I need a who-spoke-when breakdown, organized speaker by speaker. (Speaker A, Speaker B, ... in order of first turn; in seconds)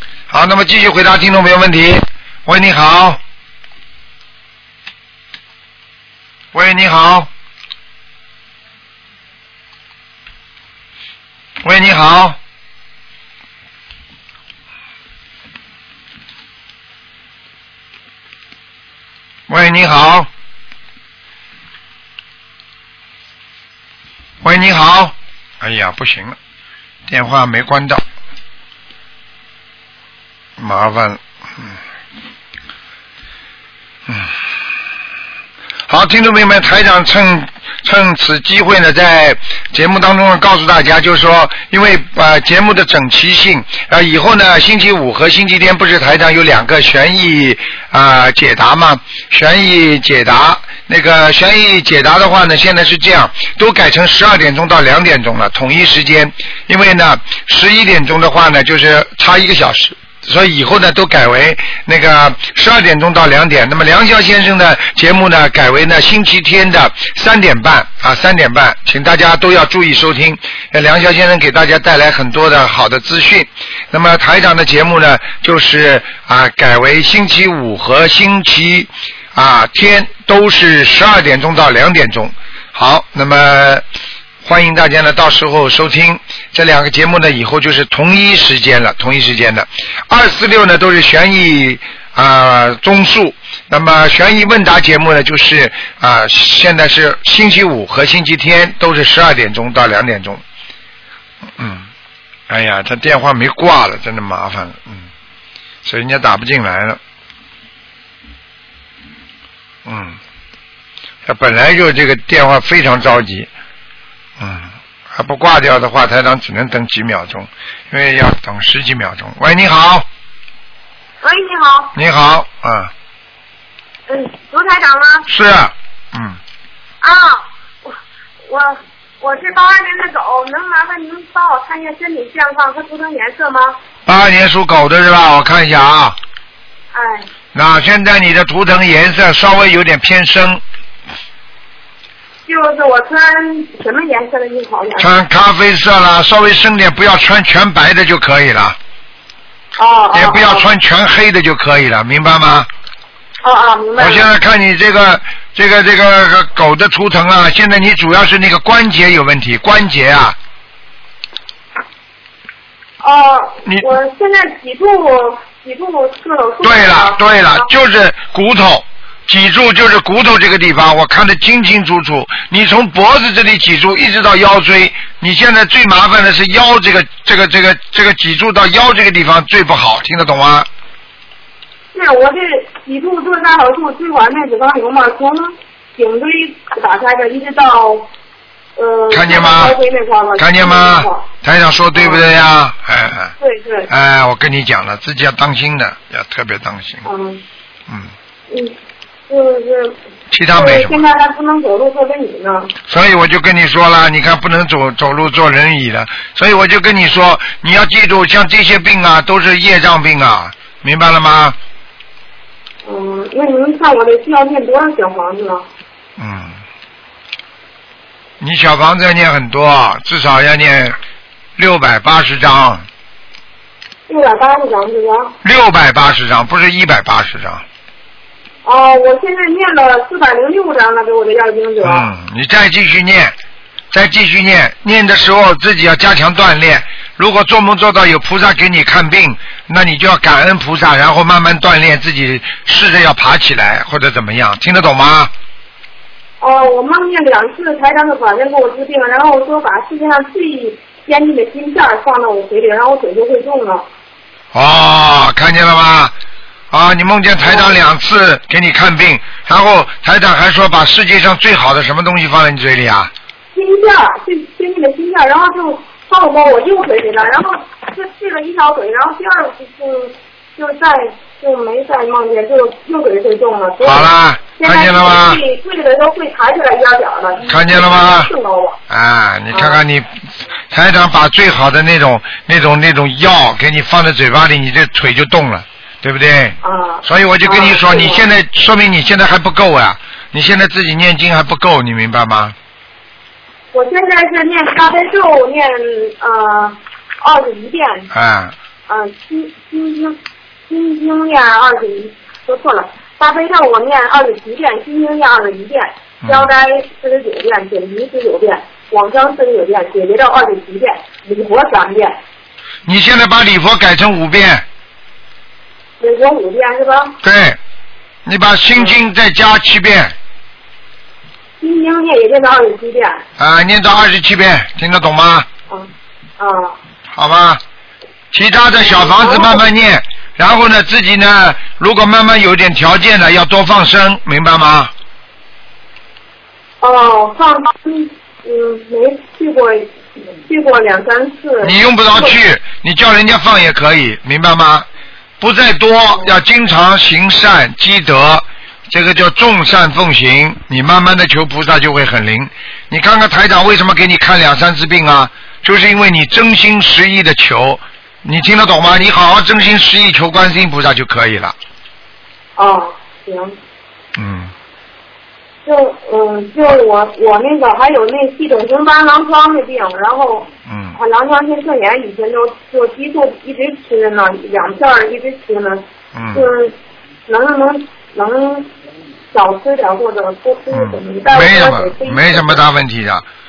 Speaker A: 0.3-3.2, 6.5-7.3, 11.6-12.4, 19.5-20.3, 24.4-26.4, 27.1-28.0, 30.6-31.8, 34.1-34.4, 35.9-83.8, 84.4-100.4, 101.6-101.9, 102.5-105.1, 105.8-107.0, 109.8-110.2, 111.2-113.5, 114.4-120.0, 121.9-122.9, 125.3-126.4, 134.1-136.2, 137.5-140.6, 145.0-148.8, 150.1-152.7, 154.0-160.4, 166.6-180.7, 189.1-189.8, 190.4-193.3, 193.9-197.1, 200.3-201.0, 202.9-211.6, 216.2-216.6, 218.4-220.9, 221.6-222.8, 225.4-227.6, 231.8-233.3, 233.9-245.3, 254.5-256.1, 256.7-263.1, 273.8-275.4, 277.4-278.3, 278.9-292.6, 298.1-298.5, 306.2-306.5, 312.9-314.6, 317.2-317.6, 318.2-320.1, 323.4-325.5, 327.1-327.6, 328.3-334.9, 341.6-344.9, 345.4-361.6, 364.1-364.5, 370.6-371.0, 376.1-376.5, 380.7-383.2
Speaker B: 121.2-121.9, 124.1-125.3, 127.0-133.8, 136.9-137.3, 142.4-145.1, 149.8-150.7, 153.4-154.3, 163.0-167.7, 181.9-188.1, 188.8-191.2, 191.9-192.3, 193.4-193.9, 197.0-197.4, 198.5-198.7, 199.3-199.9, 200.5-202.7, 212.8-215.7, 224.1-225.3, 228.6-232.1, 246.4-253.8, 257.4-257.7, 263.5-278.8, 279.5-279.8, 286.6-288.2, 293.7-298.1, 298.9-300.2, 300.7-312.2, 316.0-317.2, 321.6-323.2, 325.7-326.8, 328.8-329.6, 336.8-342.4, 362.6-363.6, 365.6-376.7, 377.3-378.7, 379.3-382.6